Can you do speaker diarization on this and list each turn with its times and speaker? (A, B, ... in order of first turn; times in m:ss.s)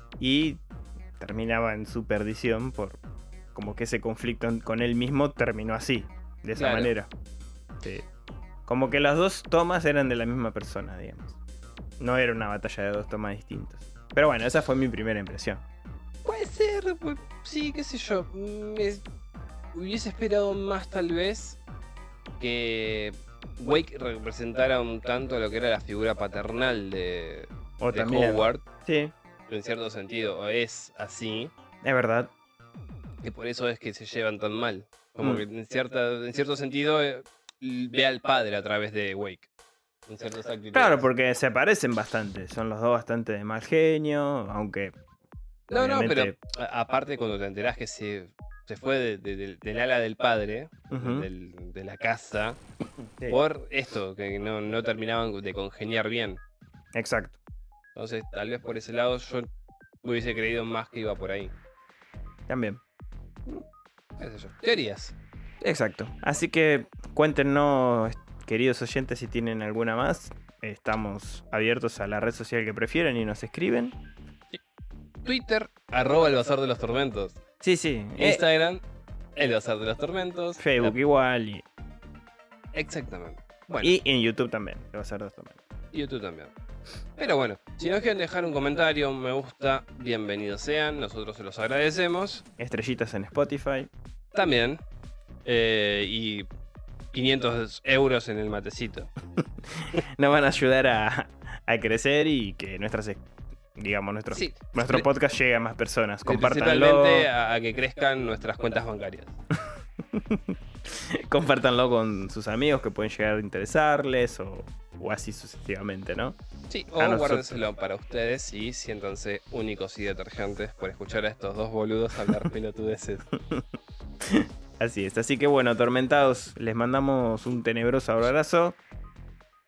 0:00.2-0:00.6 A
0:01.2-0:03.0 A
0:03.6-0:07.1 A
0:06.6-0:06.9 B
0:07.8-0:08.1 A
0:08.7-0:11.4 A
0:12.0-0:15.6 A
0:16.2-0:19.0 B
0:19.7-0:21.6 B
0:22.4-0:28.6 B
0:27.8-0:29.1 A
0:29.5-0:31.5 B
0:31.8-0:32.3 A
0:33.2-0:39.5 B
0:40.1-0:41.1 B
0:40.7-0:45.0 A
0:45.7-0:52.6 B
0:45.7-0:46.4 A
0:50.9-0:51.3 A
0:53.3-0:56.4 B
0:57.0-0:57.4 A
0:58.0-0:59.5 B
1:00.0-1:01.5 B
1:02.5-1:02.8 A
1:04.2-1:05.2 B
1:05.6-1:14.0 A
1:15.2-1:17.4 B
1:17.6-1:18.4 A
1:18.2-1:18.8 B
1:19.4-1:21.0 B
1:20.6-1:21.6 A
1:22.7-1:24.0 B
1:23.8-1:25.6 A
1:25.9-1:26.5 B
1:27.2-1:32.4 B
1:32.6-1:33.9 A
1:34.3-1:34.8 B
1:35.4-1:36.5 B
1:37.1-1:39.1 B
1:39.6-1:43.2 A
1:43.8-1:47.3 A
1:44.3-1:45.1 B
1:46.3-1:49.4 B
1:50.0-1:56.4 A
1:56.7-2:03.3 B
1:57.0-1:57.7 A
2:03.4-2:03.7 A
2:04.2-2:08.8 A